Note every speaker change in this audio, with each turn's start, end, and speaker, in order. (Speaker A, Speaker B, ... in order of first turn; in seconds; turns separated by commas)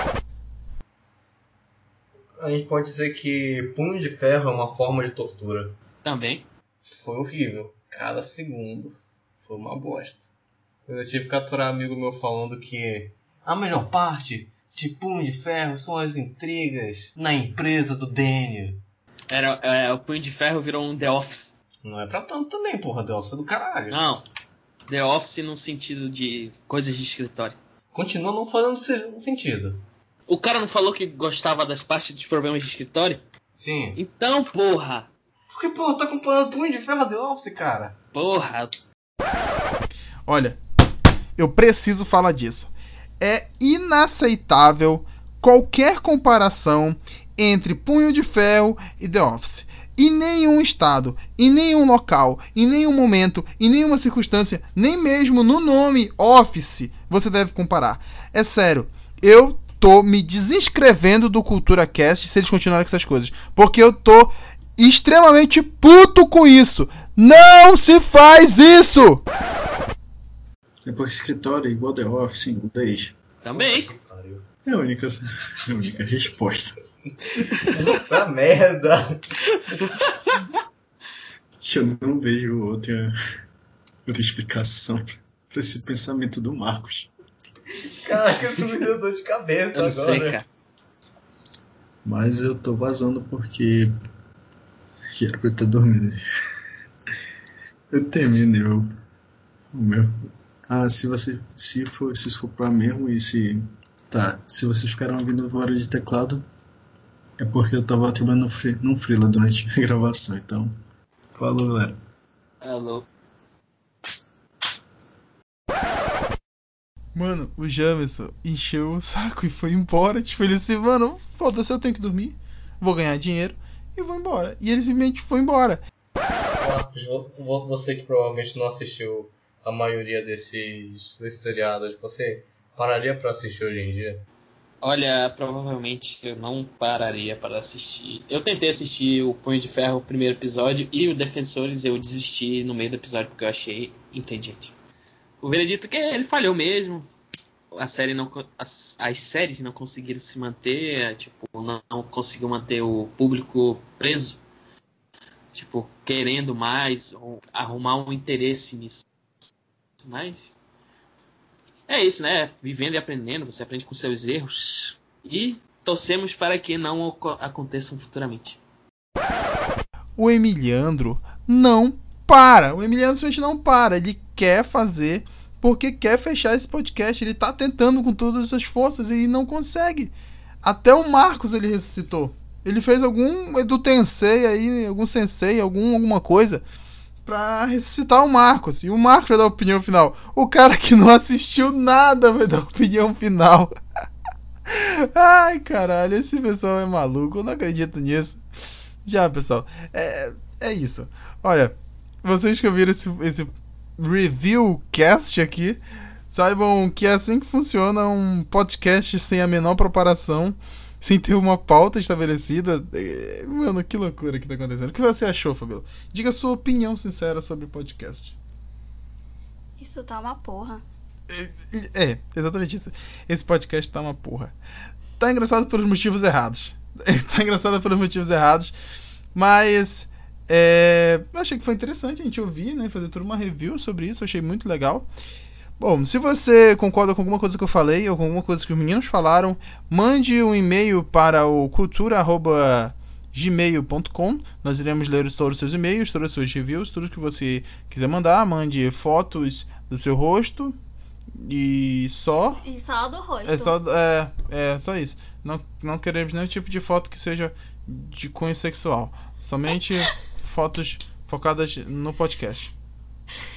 Speaker A: 2.4-5.8, Speaker B: 6.0-6.5, Speaker A: 6.8-10.3, Speaker A: 10.9-18.8, Speaker B: 19.3-21.5, Speaker A: 21.8-24.0, Speaker B: 23.9-24.2, Speaker B: 24.9-27.6, Speaker A: 27.9-29.8, Speaker B: 30.3-33.2, Speaker A: 33.6-34.0, Speaker B: 34.0-35.1, Speaker A: 35.5-38.0, Speaker B: 38.1-38.8, Speaker C: 40.3-40.6, Speaker C: 41.4-69.2, Speaker D: 70.8-73.2, Speaker B: 73.4-73.9, Speaker A: 73.5-74.5, Speaker D: 74.7-76.8, Speaker B: 77.2-78.0, Speaker A: 77.7-80.2, Speaker B: 79.4-80.6, Speaker D: 81.6-83.1, Speaker D: 84.1-87.1, Speaker A: 87.9-90.4, Speaker B: 89.7-90.5, Speaker D: 92.0-93.9, Speaker D: 95.1-96.2, Speaker D: 97.9-98.9, Speaker D: 99.7-100.2, Speaker D: 100.7-106.5, Speaker D: 107.4-110.8, Speaker D: 111.3-112.0, Speaker B: 112.6-113.1, Speaker C: 117.2-125.8, Speaker A: 126.6-134.2, Speaker B: 134.8-144.7, Speaker B: 145.4-147.1, Speaker B: 147.7-154.4, Speaker B: 155.5-159.0, Speaker B: 160.0-160.5, Speaker B: 161.9-168.6, Speaker C: 170.2-186.6, Speaker C: 187.3-193.7, Speaker C: 194.7-198.4, Speaker C: 199.0-218.4, Speaker E: 219.8-220.8, Speaker C: 221.3-224.5, Speaker C: 225.2-228.7, Speaker C: 229.3-235.1, Speaker C: 235.8-250.8, Speaker C: 251.3-252.6, Speaker E: 252.6-253.8, Speaker C: 253.4-262.7